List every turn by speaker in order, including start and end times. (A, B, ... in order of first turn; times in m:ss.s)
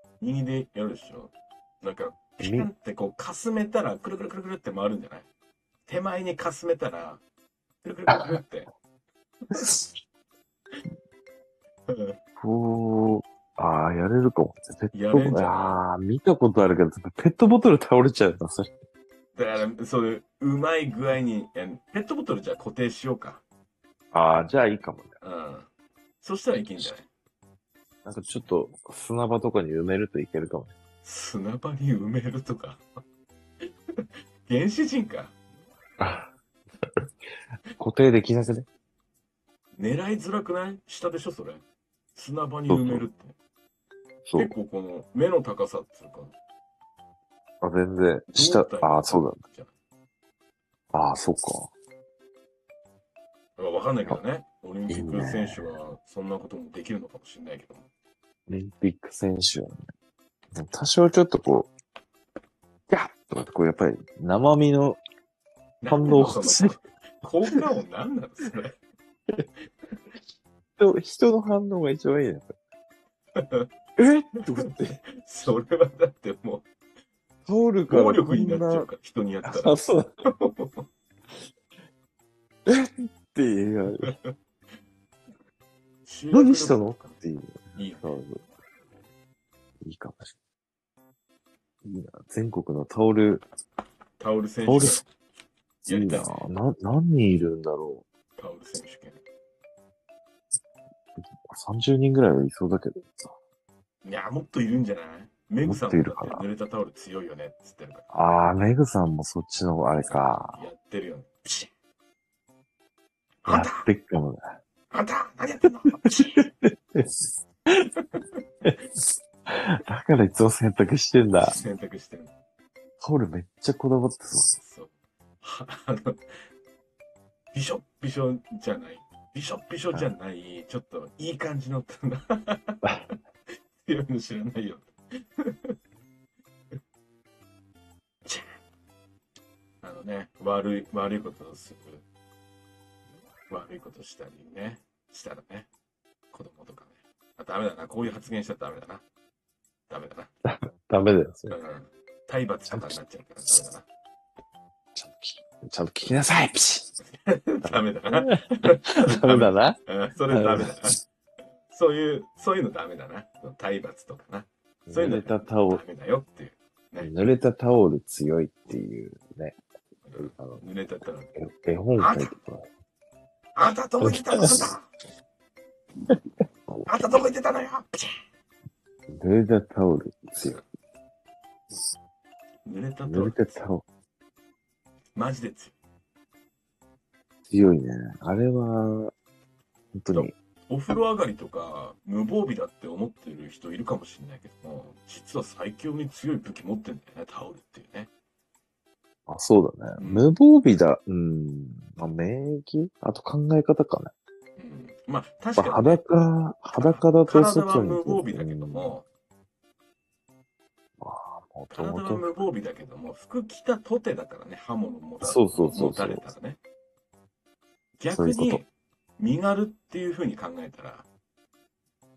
0:00.2-0:05.3 A
0:02.4-0:02.7 B
0:05.9-0:07.2 A
0:07.8-0:08.7 A
0:09.5-0:09.9 B
0:11.9-0:12.2 A
0:12.4-0:18.7 B
0:14.9-0:15.8 A
0:19.3-0:23.4 A
0:24.1-0:25.2 B
0:25.2-0:25.7 A
0:26.2-0:27.1 A
0:28.0-0:30.7 B
0:31.0-0:32.8 A
0:34.0-0:35.3 A
0:36.0-0:36.3 B
0:37.8-0:38.7 B
0:39.8-0:41.6 A
0:42.2-0:43.4 A
0:42.7-0:43.1 B
0:44.2-0:44.5 B
0:44.3-0:46.3 A
0:47.6-0:49.4 B
0:48.3-0:49.7 A
0:50.9-0:51.7 B
0:53.6-0:57.9 A
0:54.9-0:55.7 B
0:58.5-0:59.8 B
1:00.6-1:01.7 B
1:02.9-1:05.0 B
1:05.8-1:08.7 A
1:05.9-1:06.8 B
1:10.8-1:12.5 B
1:13.4-1:13.7 A
1:14.0-1:15.0 B
1:15.2-1:16.7 A
1:17.5-1:18.9 B
1:17.9-1:20.8 A
1:19.4-1:20.1 B
1:22.7-1:24.1 B
1:24.0-1:24.3 A
1:26.0-1:27.2 A
1:26.3-1:28.4 B
1:27.8-1:28.2 A
1:29.8-1:30.3 B
1:31.8-1:33.4 B
1:34.2-1:35.0 A
1:34.6-1:35.0 B
1:35.8-1:38.0 B
1:35.9-1:36.4 A
1:38.4-1:39.2 A
1:41.4-1:43.3 B
1:44.0-1:48.1 A
1:45.6-1:46.4 B
1:48.1-1:50.7 B
1:50.1-1:51.7 A
1:53.4-1:53.9 A
1:53.5-1:54.4 B
1:54.9-1:56.5 A
1:56.4-1:57.9 B
1:59.5-2:01.5 B
2:01.4-2:02.3 A
2:03.0-2:04.6 B
2:04.6-2:06.2 A
2:07.5-2:12.8 A
2:13.8-2:15.8 A
2:18.3-2:18.6 A
2:19.8-2:22.0 A
2:23.5-2:25.7 A
2:26.3-2:29.0 A
2:29.9-2:30.3 A
2:30.5-2:31.6 B
2:31.5-2:33.8 A
2:32.7-2:33.0 B
2:35.0-2:36.9 B
2:37.2-2:41.0 A
2:37.6-2:40.9 B
2:41.7-2:47.1 A
2:44.9-2:45.8 B
2:47.0-2:49.6 B
2:50.1-2:51.3 A
2:50.2-2:50.6 B
2:51.3-2:52.7 B
2:52.0-2:52.3 A
2:53.6-2:54.8 A
2:54.0-2:54.7 B
2:56.8-2:58.1 A
2:59.1-3:00.6 B
3:02.6-3:03.5 A
3:03.0-3:03.8 B
3:05.2-3:05.8 A
3:07.5-3:09.1 B
3:10.0-3:10.3 B
3:10.1-3:18.1 A
3:19.3-3:24.1 B
3:20.0-3:20.3 A
3:24.6-3:26.0 A
3:25.5-3:29.0 B
3:26.7-3:29.1 A
3:31.0-3:32.4 B
3:31.7-3:36.6 A
3:35.2-3:36.3 B
3:38.0-3:38.7 A
3:38.1-3:38.6 B
3:39.2-3:41.1 A